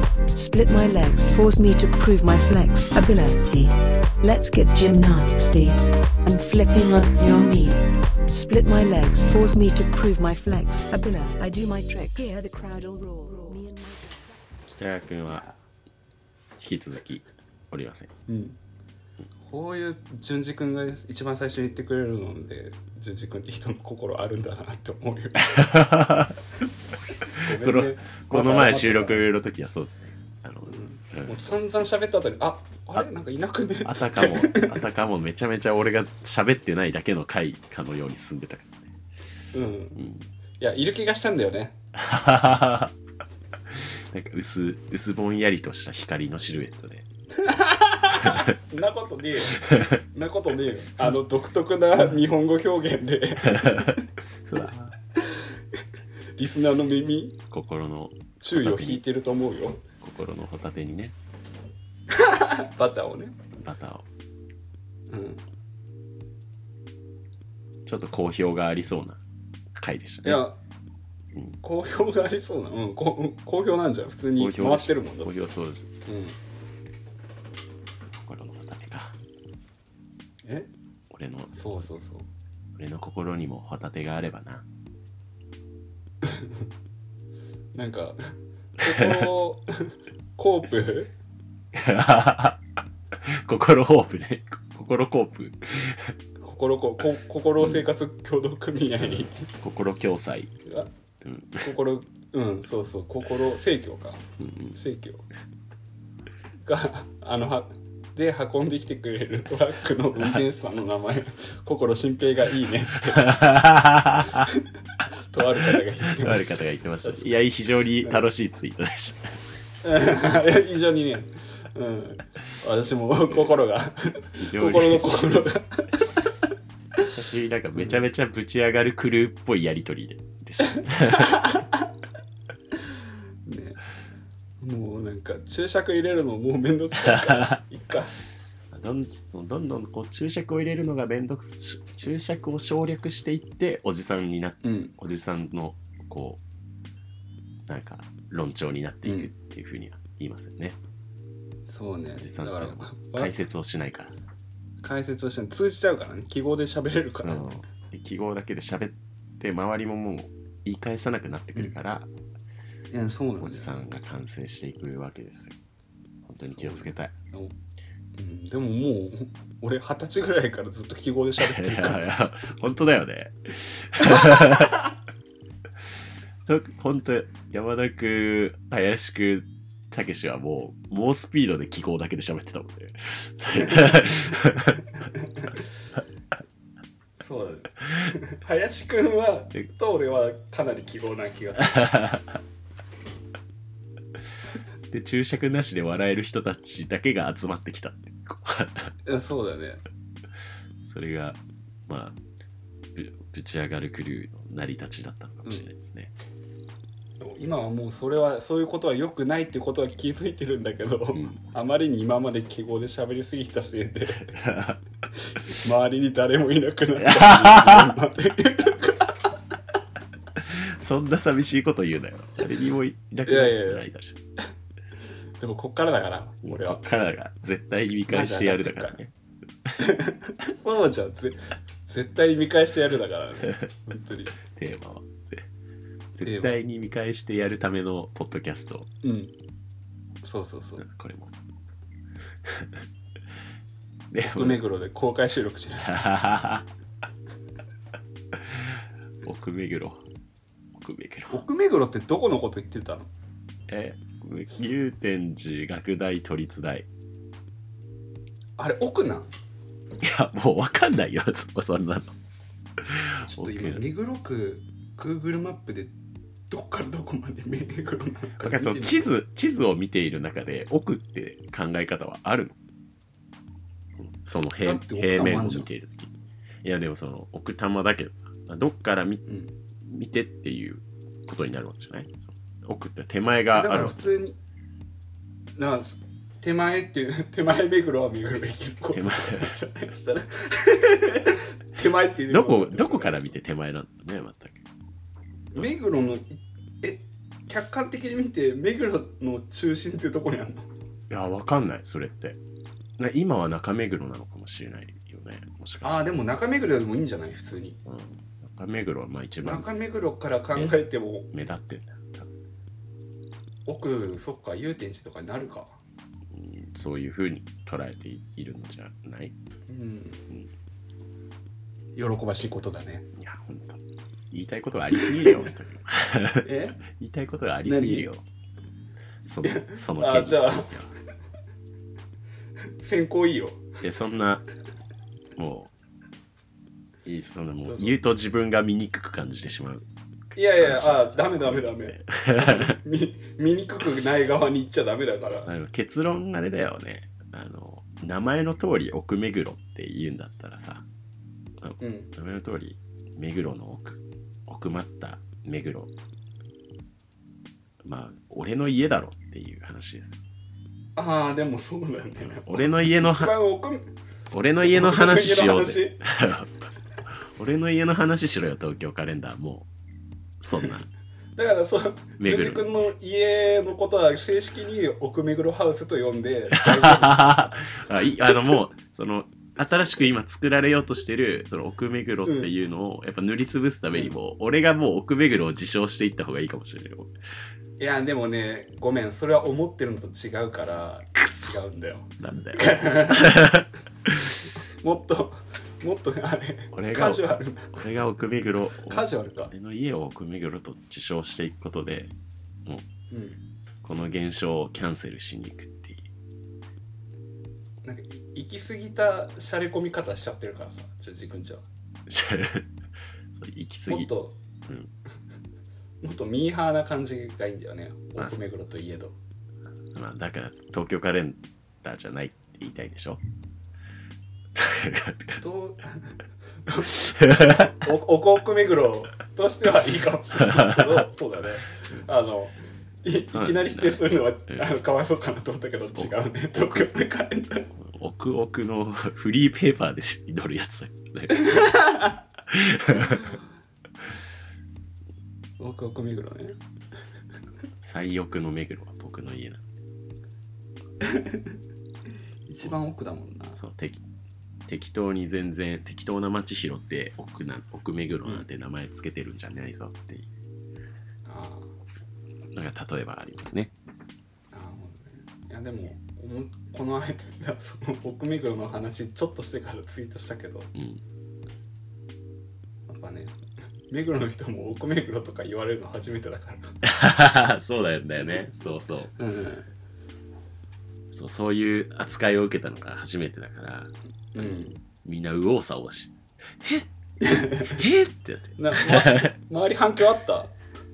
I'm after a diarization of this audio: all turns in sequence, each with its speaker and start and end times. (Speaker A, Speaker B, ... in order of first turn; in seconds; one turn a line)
Speaker A: 0.3-7.8
Speaker A: 8.3-14.2
Speaker B: 14.7-15.4
Speaker B: 16.6-18.1
Speaker C: 18.3-18.6
Speaker C: 19.4-25.6
Speaker B: 25.4-26.4
Speaker C: 27.4-29.3
Speaker B: 27.5-31.5
Speaker C: 30.6-34.8
Speaker B: 33.8-38.9
Speaker C: 39.5-40.0
Speaker B: 40.0-40.2
Speaker C: 40.6-41.8
Speaker B: 41.9-42.9
Speaker B: 43.7-47.0
Speaker C: 47.3-54.0
Speaker B: 48.1-48.5
Speaker B: 49.6-50.0
Speaker B: 53.5-54.0
Speaker B: 54.5-54.9
Speaker C: 55.2-55.4
Speaker C: 56.4-57.4
Speaker B: 57.5-59.0
Speaker C: 58.4-59.8
Speaker B: 60.0-61.1
Speaker C: 62.1-63.4
Speaker B: 63.5-64.0
Speaker C: 65.1-65.4
Speaker B: 67.8-69.2
Speaker B: 69.7-70.4
Speaker C: 70.2-70.6
Speaker C: 71.6-75.3
Speaker B: 74.4-76.1
Speaker C: 76.1-76.4
Speaker B: 78.2-79.2
Speaker C: 80.4-80.7
Speaker B: 81.1-81.6
Speaker C: 81.5-82.3
Speaker B: 82.7-84.6
Speaker C: 86.2-86.6
Speaker C: 87.7-88.2
Speaker C: 88.8-91.1
Speaker B: 88.9-89.3
Speaker B: 91.7-96.1
Speaker C: 96.4-99.5
Speaker B: 97.6-97.8
Speaker B: 99.0-100.5
Speaker C: 100.6-100.9
Speaker B: 101.2-101.7
Speaker C: 101.6-105.2
Speaker B: 104.4-104.8
Speaker C: 106.7-113.4
Speaker B: 113.1-114.5
Speaker C: 114.3-114.6
Speaker C: 115.3-117.3
Speaker B: 115.7-119.4
Speaker C: 119.8-126.3
Speaker B: 123.3-123.6
Speaker B: 124.4-125.4
Speaker B: 127.1-131.4
Speaker C: 130.8-131.8
Speaker C: 133.4-133.8
Speaker C: 134.6-138.1
Speaker B: 137.0-137.5
Speaker B: 138.7-146.4
Speaker C: 144.6-144.9
Speaker B: 147.7-150.8
Speaker C: 149.0-149.3
Speaker C: 151.7-153.3
Speaker B: 152.2-154.1
Speaker C: 154.8-157.5
Speaker B: 157.2-162.1
Speaker C: 162.9-163.7
Speaker B: 163.4-165.6
Speaker B: 166.2-167.1
Speaker C: 166.4-167.5
Speaker C: 168.2-172.5
Speaker B: 171.4-174.8
Speaker C: 174.0-174.7
Speaker B: 176.4-184.8
Speaker C: 183.6-184.4
Speaker C: 185.1-185.6
Speaker C: 187.2-191.9
Speaker B: 191.6-192.4
Speaker B: 194.9-198.9
Speaker C: 199.1-199.8
Speaker B: 200.8-202.2
Speaker B: 202.9-206.1
Speaker C: 207.2-214.3
Speaker B: 211.1-211.4
Speaker B: 214.3-214.8
Speaker C: 215.3-219.3
Speaker B: 217.0-217.9
Speaker B: 220.4-224.2
Speaker C: 223.2-223.8
Speaker C: 225.4-226.8
Speaker B: 226.4-229.1
Speaker C: 228.1-229.0
Speaker C: 229.8-234.3
Speaker B: 234.5-235.4
Speaker B: 236.1-238.9
Speaker C: 236.2-236.6
Speaker C: 239.0-239.3
Speaker C: 240.2-240.8
Speaker B: 240.8-241.3
Speaker B: 242.4-242.8
Speaker B: 244.1-244.6
Speaker C: 244.2-246.0
Speaker B: 245.8-246.7
Speaker B: 248.3-250.0
Speaker B: 250.7-251.4
Speaker C: 251.3-253.1
Speaker B: 253.7-256.9
Speaker C: 258.6-259.3
Speaker B: 260.0-262.1
Speaker B: 262.8-263.8
Speaker C: 263.2-265.9
Speaker C: 266.5-269.1
Speaker B: 268.4-272.6
Speaker B: 274.0-279.2
Speaker C: 274.6-275.7
Speaker C: 279.2-279.5
Speaker B: 279.8-284.2
Speaker C: 283.5-284.4
Speaker C: 285.6-293.3
Speaker B: 288.9-289.5
Speaker B: 292.3-294.6
Speaker C: 295.5-300.7
Speaker B: 301.1-302.4
Speaker B: 303.0-306.1
Speaker C: 305.8-307.8
Speaker B: 307.9-309.7
Speaker C: 309.4-311.3
Speaker B: 310.5-310.8
Speaker B: 311.3-312.3
Speaker C: 313.6-315.8
Speaker B: 316.3-319.3
Speaker C: 319.7-320.2
Speaker C: 321.9-323.1
Speaker B: 323.1-328.2
Speaker C: 325.0-325.5
Speaker C: 326.4-326.8
Speaker C: 327.6-328.1
Speaker B: 329.2-330.9
Speaker C: 329.4-330.7
Speaker C: 332.8-333.7
Speaker B: 333.8-334.4
Speaker B: 335.4-335.7
Speaker B: 337.0-342.8
Speaker C: 337.6-338.0
Speaker C: 340.4-345.5
Speaker B: 345.4-350.9
Speaker B: 351.6-355.9
Speaker C: 351.8-352.1
Speaker B: 357.8-360.2
Speaker C: 360.9-363.8
Speaker B: 362.3-363.3
Speaker B: 364.3-366.5
Speaker C: 364.6-366.0
Speaker B: 367.4-369.7
Speaker B: 370.4-370.9
Speaker C: 371.4-377.7
Speaker B: 372.2-372.7
Speaker B: 376.6-387.1
Speaker C: 382.2-382.5
Speaker C: 387.8-393.5
Speaker B: 392.2-394.3
Speaker C: 394.8-397.7
Speaker B: 396.7-402.1
Speaker C: 398.9-399.5
Speaker C: 403.1-403.4
Speaker B: 403.8-406.1
Speaker C: 407.8-411.6
Speaker B: 412.1-412.7
Speaker B: 413.3-414.1
Speaker C: 413.9-414.4
Speaker C: 416.0-419.2
Speaker B: 419.9-423.2
Speaker B: 424.5-425.4
Speaker C: 425.4-437.7
Speaker B: 427.1-427.7
Speaker B: 430.4-431.0
Speaker B: 433.3-434.7
Speaker B: 435.9-436.9
Speaker B: 437.8-441.6
Speaker C: 441.3-442.2
Speaker B: 442.5-443.3
Speaker C: 443.0-443.3
Speaker C: 445.6-446.6
Speaker B: 447.8-449.6
Speaker C: 451.0-451.5
Speaker C: 452.4-453.6
Speaker B: 453.5-454.0
Speaker B: 454.7-460.3
Speaker C: 461.2-461.7
Speaker B: 462.5-463.7
Speaker C: 464.5-470.7
Speaker B: 470.7-471.0
Speaker C: 472.9-473.4
Speaker C: 473.9-476.7
Speaker B: 476.8-479.1
Speaker C: 479.2-479.7
Speaker B: 481.1-486.9
Speaker C: 484.3-484.8
Speaker C: 487.2-487.8
Speaker B: 487.6-489.3
Speaker C: 488.6-490.5